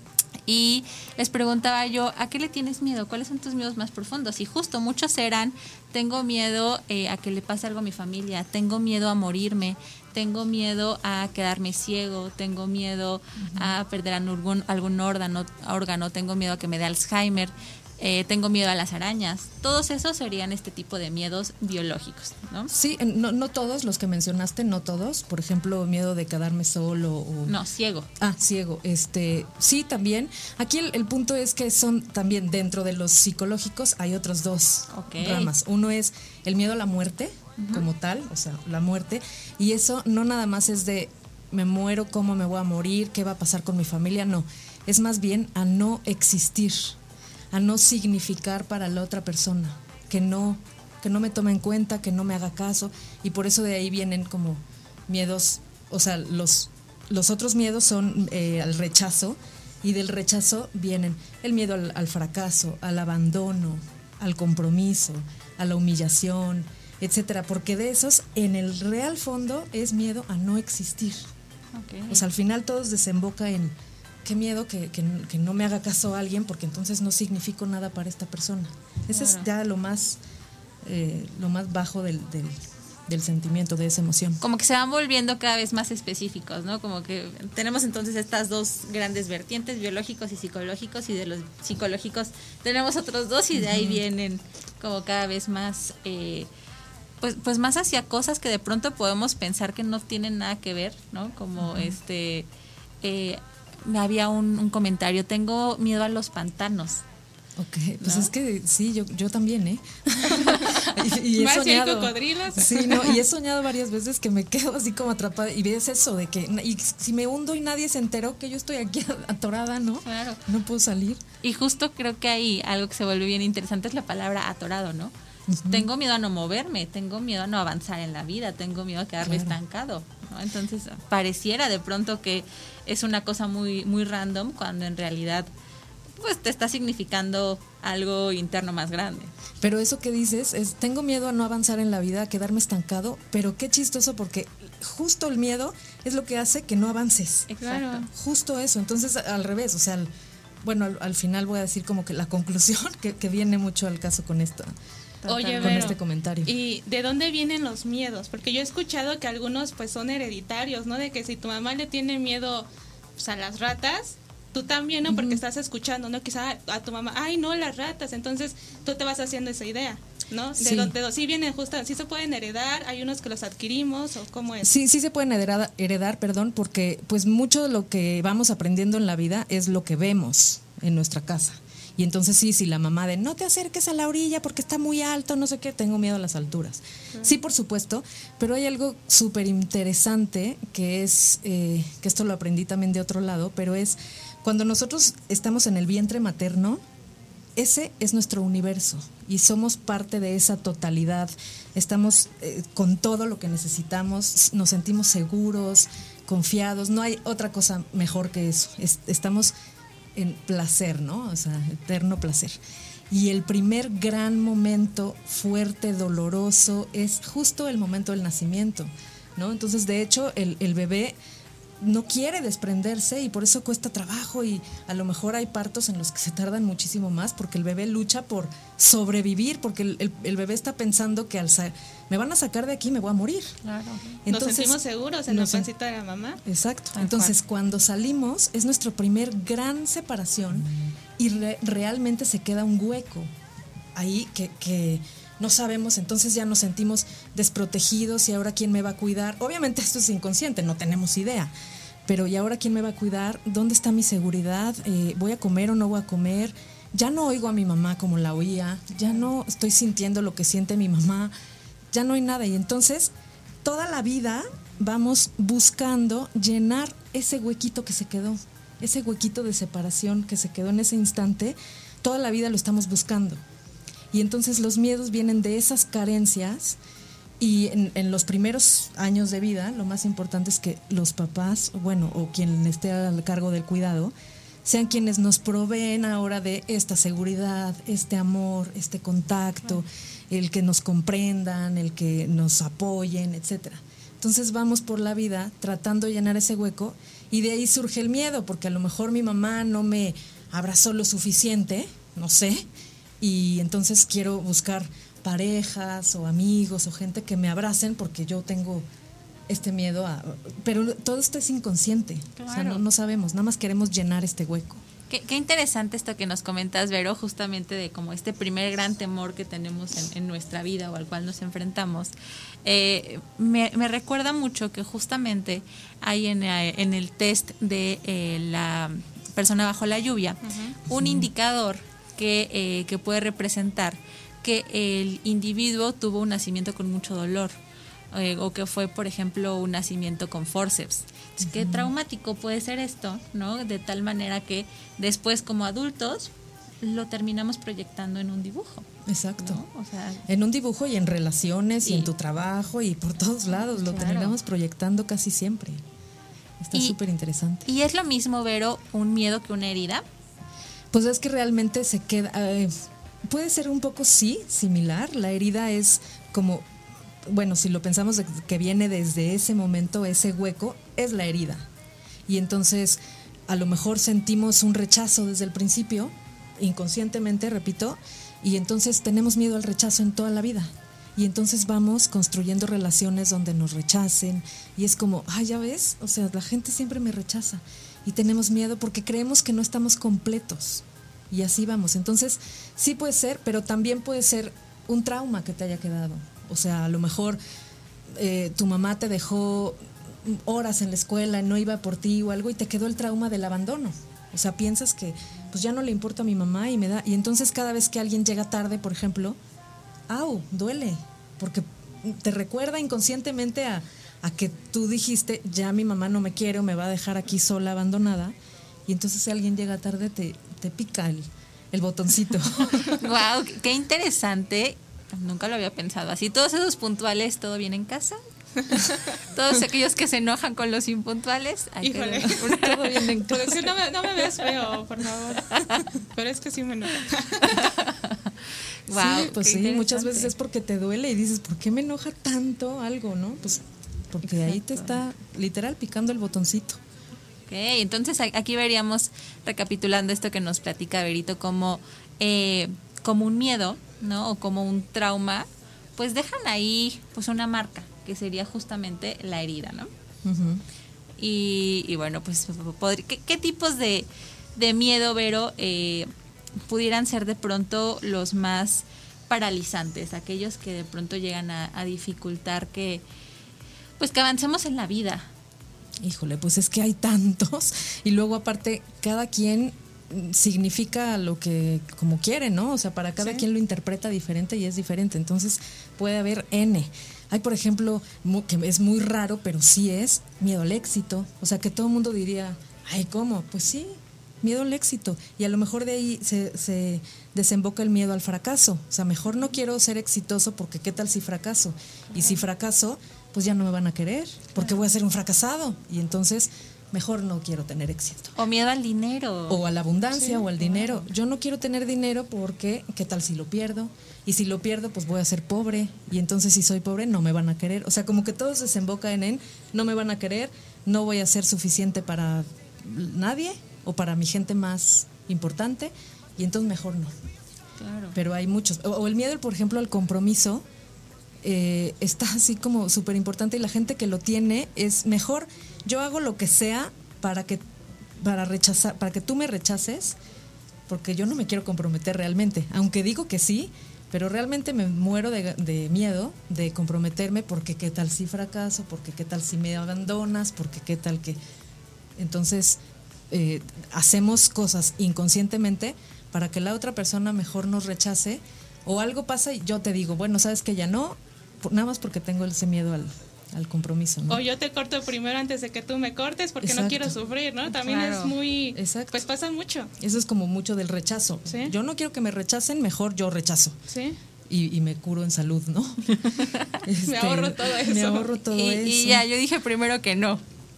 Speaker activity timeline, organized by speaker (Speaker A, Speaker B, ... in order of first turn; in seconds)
Speaker A: 0.5-22.7, 27.5-28.1, 34.9-35.5, 37.6-37.9, 71.8-72.2, 79.1-79.5, 84.4-96.5, 97.2-102.5, 103.0-107.0, 108.0-108.3, 110.4-110.8, 120.0-120.4, 121.4-125.1, 125.6-135.5, 136.2-139.3, 147.5-148.1, 155.2-155.9, 233.6-234.0, 236.9-237.3, 312.4-312.8, 315.1-322.1, 322.6-337.5, 338.1-350.2, 351.8-352.1, 353.6-354.4, 357.6-360.1, 423.0-428.2, 429.3-433.1, 435.6-435.8, 437.5-438.3, 438.9-440.3, 444.3-445.0, 447.5-459.9, 461.2-466.1, 466.7-473.0, 474.0-475.3, 502.1-502.4, 508.4-509.6, 510.6-511.0, 527.8-528.1, 567.7-568.3, 576.1-576.7, 578.5-580.4
Speaker B: 13.4-13.7, 22.7-27.6, 28.2-47.0, 47.5-71.3, 72.1-80.2, 80.8-84.4, 93.5-94.0, 101.6-102.0, 107.6-121.2, 125.5-125.9, 129.2-129.6, 139.6-147.5, 148.1-150.1, 150.6-154.7, 155.6-156.5, 165.1-165.4, 170.6-170.9, 174.6-196.8, 197.6-209.5, 210.1-212.6, 213.1-221.2, 221.8-233.6, 234.2-235.7, 236.4-243.3, 243.9-251.5, 252.1-261.3, 261.9-263.1, 263.6-273.4, 274.1-276.8, 277.4-284.1, 284.6-302.7, 303.2-308.9, 309.5-314.8, 330.9-331.2, 341.4-341.9, 349.1-349.6, 350.3-355.8, 356.6-357.6, 360.9-366.7, 367.2-371.7, 372.3-397.4, 398.1-409.4, 410.1-418.4, 418.9-423.0, 432.2-433.7, 438.9-446.8, 460.2-460.6, 476.0-508.3, 509.5-527.1, 528.1-530.6, 531.4-537.6, 538.2-540.2, 540.9-551.4, 552.2-564.4, 566.6-567.1, 568.7-569.2, 570.0-573.8, 574.5-576.1, 576.8-579.2
Speaker C: 111.4-113.1, 147.6-148.0, 155.3-156.0, 156.5-174.7, 234.3-236.4, 330.4-330.7, 428.6-429.0, 431.8-432.4, 433.3-437.7, 564.3-569.9, 571.5-571.7, 573.9-574.2, 577.0-578.3